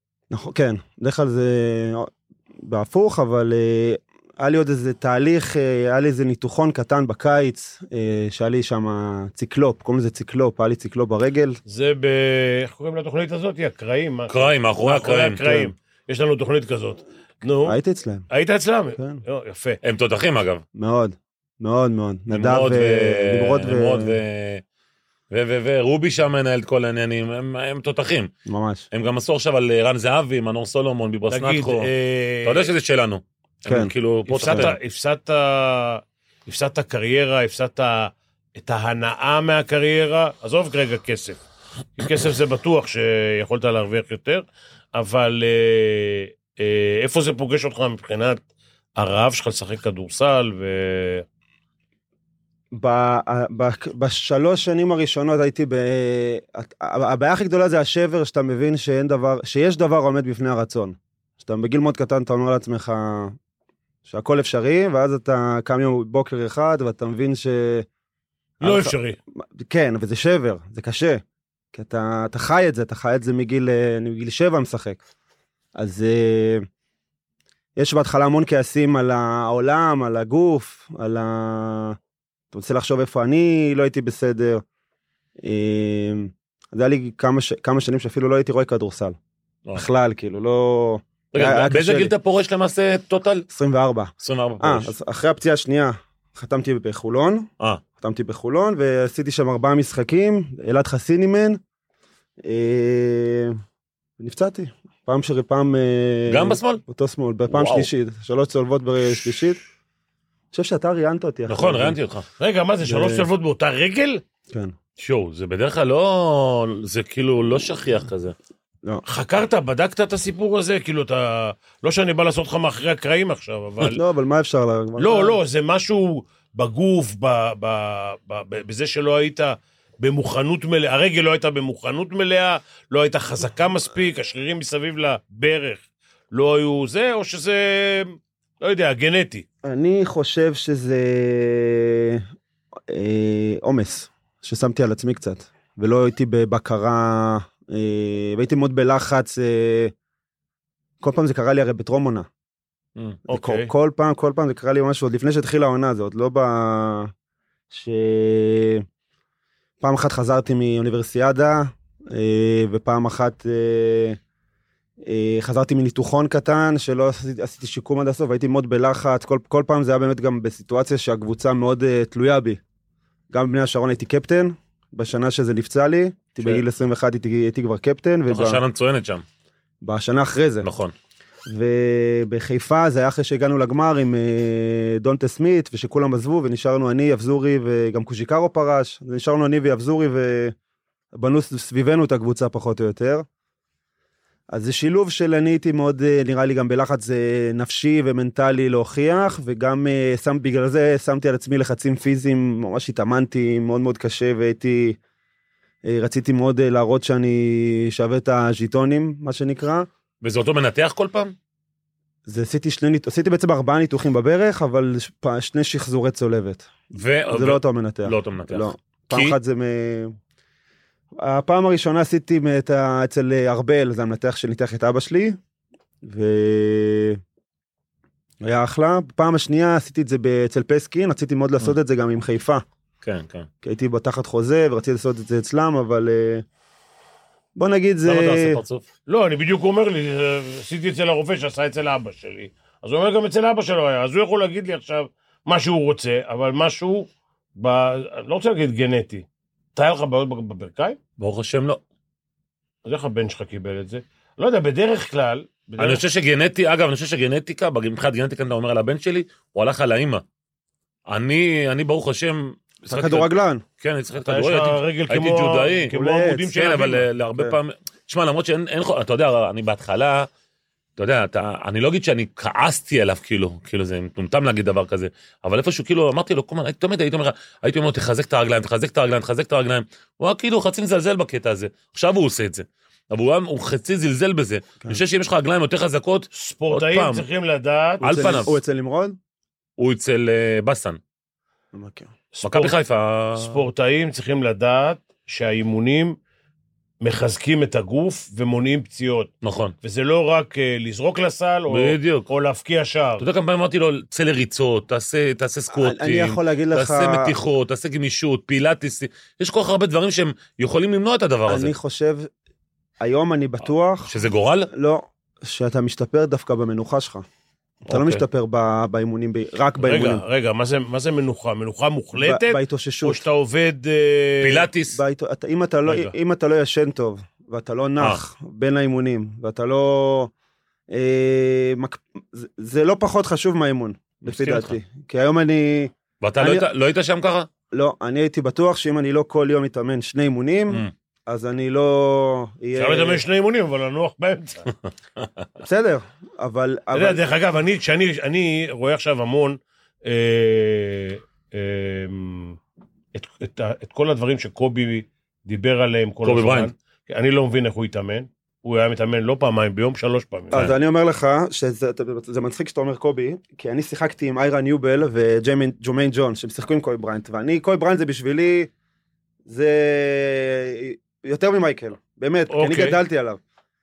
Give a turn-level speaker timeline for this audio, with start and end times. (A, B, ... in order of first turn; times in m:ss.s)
0:00.3-0:11.6 A
0:11.7-0:17.8 B
0:14.3-0:15.4 C
0:15.4-0:15.7 A
0:17.6-0:18.3 A
0:18.3-0:19.8 B
0:19.8-0:20.6 C
0:20.7-0:24.2 A
0:22.3-0:24.6 C
0:25.3-0:28.3 C
0:28.4-0:28.9 A
0:28.9-0:31.9 C
0:31.3-0:32.7 B
0:32.4-0:34.8 C
0:33.6-0:33.9 A
0:34.3-0:41.4 B
0:42.0-0:48.4 B
0:49.0-0:51.2 B
0:52.7-1:03.4 A
1:04.0-1:07.8 A
1:08.6-1:09.2 B
1:08.6-1:15.0 A
1:15.8-1:16.6 A
1:17.8-1:22.0 A
1:22.5-1:24.6 A
1:25.4-1:29.2 A
1:29.7-1:32.1 A
1:31.3-1:33.4 C
1:33.5-1:41.6 A
1:34.2-1:34.9 C
1:42.4-1:43.6 A
1:44.2-1:49.6 A
1:46.3-1:46.8 C
1:47.5-1:47.9 C
1:50.5-1:52.0 A
1:51.5-1:52.3 C
1:52.4-1:54.2 B
1:52.8-1:53.3 A
1:54.5-1:54.7 A
1:55.0-1:58.3 C
1:59.0-2:04.0 B
2:03.8-2:05.4 A
2:05.0-2:19.4 B
2:19.6-2:22.2 A
2:22.9-2:29.9 A
2:31.0-2:32.3 A
2:33.3-2:37.1 A
2:33.3-2:33.7 B
2:37.7-2:38.8 A
2:39.8-2:44.2 A
2:45.0-2:52.6 A
2:53.3-2:58.6 A
2:58.3-2:59.2 C
2:59.8-3:00.7 A
3:00.6-3:00.9 C
3:01.5-3:10.5 A
3:11.1-3:13.2 A
3:14.5-3:25.0 A
3:25.8-3:29.9 A
3:30.2-3:31.3 C
3:32.2-3:36.7 A
3:36.9-3:39.4 C
3:37.3-3:40.1 A
3:41.2-3:45.4 A
3:46.0-3:47.2 A
3:48.4-3:52.6 A
3:53.0-3:53.5 C
3:53.6-3:56.4 A
3:57.6-3:58.6 A
3:58.0-3:58.8 C
3:59.1-4:11.0 B
4:11.2-4:11.8 C
4:12.8-4:16.0 B
4:15.8-4:20.2 C
4:21.1-4:25.9 C
4:22.8-4:23.6 A
4:24.2-4:27.1 B
4:25.9-4:26.5 A
4:26.5-4:30.3 C
4:31.0-4:47.2 C
4:46.3-4:48.3 B
4:48.0-4:49.2 A
4:48.0-4:48.6 C
4:49.8-4:51.0 C
4:51.7-4:52.1 A
4:52.3-4:52.8 B
4:52.4-4:53.6 C
4:53.4-4:56.2 B
4:57.0-4:59.3 B
4:59.4-4:59.7 C
4:59.8-5:03.2 B
5:01.7-5:02.3 C
5:03.2-5:11.7 C
5:05.7-5:07.3 A
5:11.5-5:12.3 A
5:13.0-5:14.2 A
5:14.1-5:14.7 C
5:14.7-5:17.2 A
5:17.9-5:20.2 A
5:17.9-5:18.2 C
5:19.8-5:24.7 B
5:22.2-5:23.2 A
5:24.4-5:25.0 C
5:24.9-5:30.3 A
5:25.9-5:26.1 B
5:30.9-5:36.6 A
5:34.2-5:34.8 C
5:36.2-5:37.5 C
5:37.7-5:43.2 A
5:42.8-5:44.7 B
5:45.6-5:47.2 A
5:46.9-5:52.6 B
5:53.1-6:00.6 B
5:56.2-5:56.7 C
6:00.5-6:08.7 A
6:09.4-6:13.4 A
6:12.5-6:13.0 B